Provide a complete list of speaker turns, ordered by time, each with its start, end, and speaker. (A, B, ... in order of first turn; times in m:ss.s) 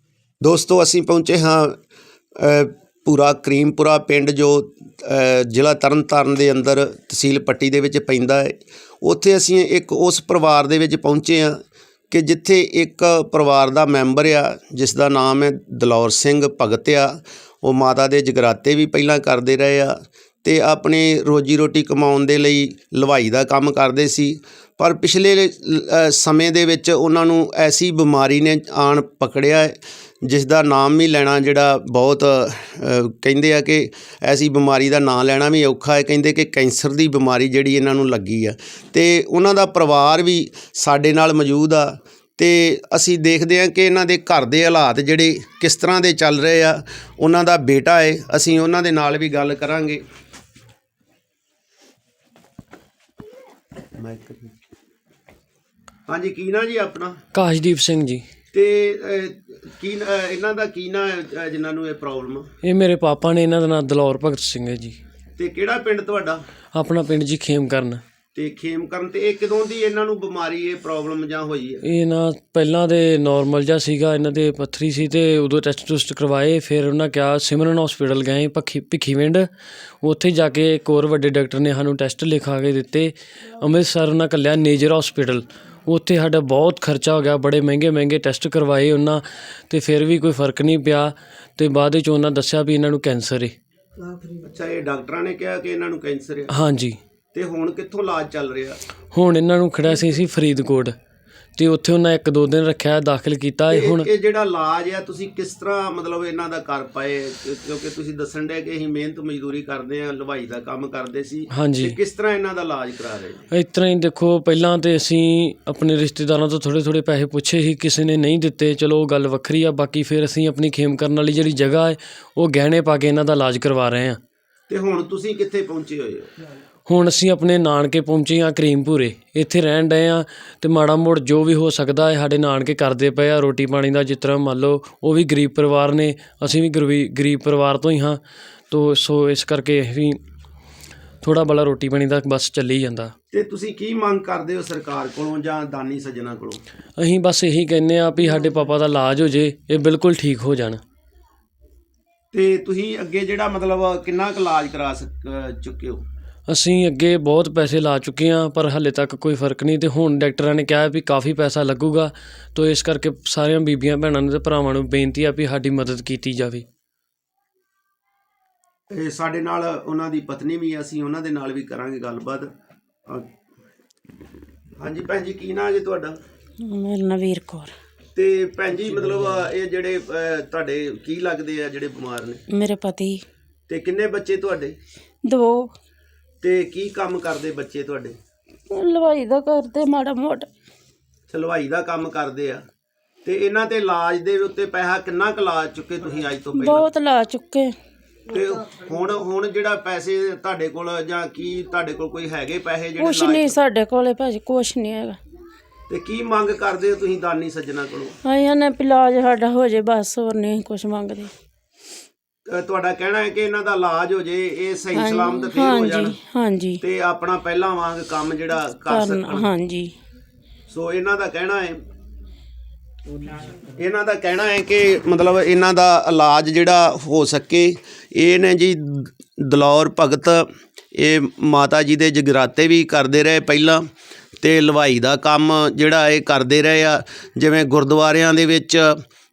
0:00.4-0:01.7 A
0:02.4-0:11.6 A
0:12.1-0:50.0 A
0:54.0-0:54.5 A
0:56.1-0:57.2 A
0:57.3-0:58.2 B
0:58.5-1:02.5 A
1:02.6-1:05.0 B
1:05.4-1:06.4 A
1:06.7-1:08.0 B
1:08.3-1:11.8 A
1:11.8-1:19.5 B
1:20.0-1:33.5 B
1:34.4-1:36.5 A
1:36.5-1:37.0 B
1:37.3-1:38.8 A
1:39.1-1:40.9 B
1:41.6-1:44.1 B
1:43.7-1:53.4 A
1:51.5-1:52.0 B
1:53.5-2:04.2 B
2:04.7-2:06.2 A
2:06.9-2:20.2 B
2:21.2-2:23.1 B
2:23.3-2:26.6 A
2:27.0-2:30.8 B
2:32.3-2:36.0 A
2:36.5-2:46.6 B
2:48.9-2:52.5 A
2:54.8-2:56.2 A
2:56.6-2:57.7 C
2:58.1-3:02.4 A
3:02.5-3:03.2 C
3:03.7-3:04.8 A
3:05.2-3:05.7 C
3:06.4-3:08.2 A
3:08.7-3:10.5 C
3:11.3-3:12.6 A
3:13.2-3:16.9 A
3:16.6-3:17.7 C
3:18.3-3:23.6 A
3:23.0-3:25.2 C
3:25.9-3:28.2 A
3:28.2-3:31.3 C
3:32.5-3:36.2 A
3:34.9-3:36.8 C
3:36.8-3:39.5 A
3:38.8-3:39.9 C
3:40.7-3:41.8 A
3:43.7-3:53.8 A
3:54.4-3:59.0 A